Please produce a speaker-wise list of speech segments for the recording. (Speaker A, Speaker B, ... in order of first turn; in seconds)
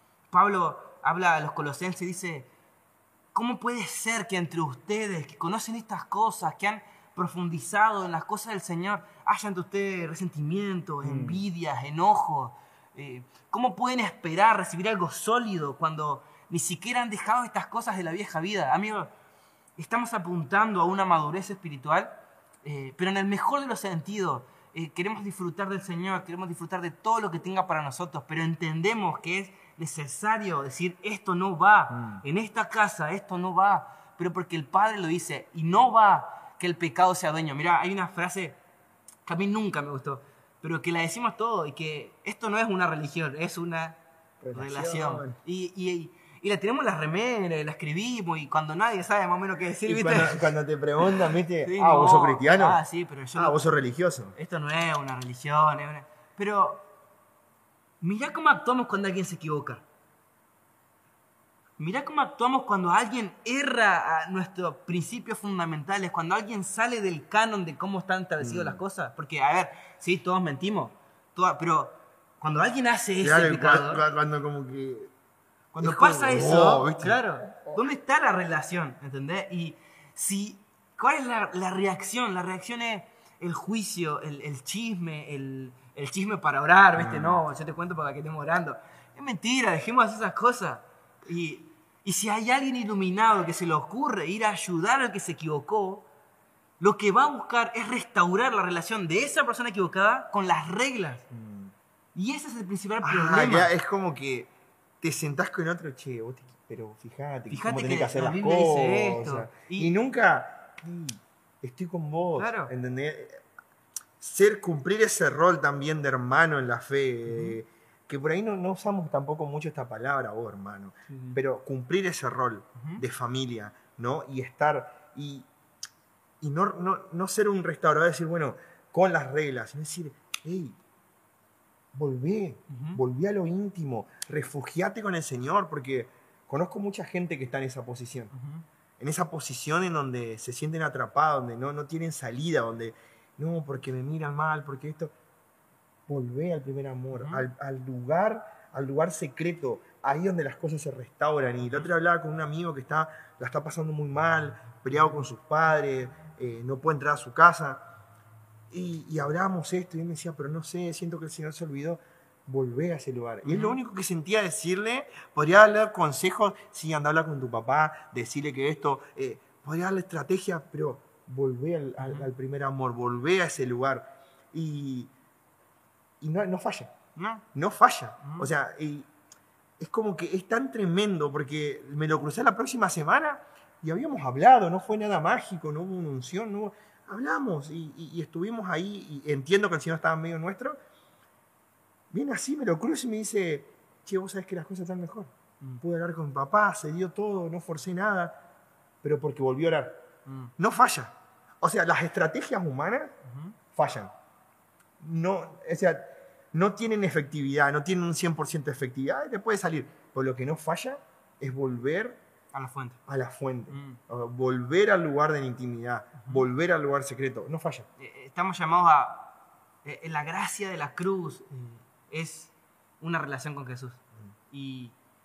Speaker A: 0.3-2.5, 3.3-19.1, 19.8-22.1, 22.6-38.6, 39.2-44.0, 44.5-53.7, 54.4-56.9, 58.0-59.8, 61.8-74.0, 75.7-96.1, 96.8-101.2, 102.2-103.7, 107.5-109.9, 112.4-112.7, 117.3-117.6, 121.1-121.4, 122.8-123.0, 132.7-133.0, 138.3-138.7, 147.1-147.5, 163.4-163.8, 172.0-172.3, 177.2-177.4, 178.2-178.5, 200.3-200.5, 203.2-203.6, 212.5-213.0, 213.7-214.0, 218.0-224.9
Speaker B: 11.0-11.4, 31.9-32.2, 44.4-45.4, 49.9-52.8, 53.4-54.4, 68.4-68.8, 73.2-75.1, 75.8-77.8, 87.0-87.4, 101.3-101.7, 103.0-104.5, 105.0-113.4, 114.2-125.5, 126.4-130.8, 131.9-138.3, 139.0-145.1, 146.1-157.8, 158.7-175.1, 176.2-176.9, 177.5-179.1, 179.8-190.8, 192.1-198.4, 199.0-200.0, 200.6-203.1, 203.7-204.1, 205.0-212.2, 213.1-217.9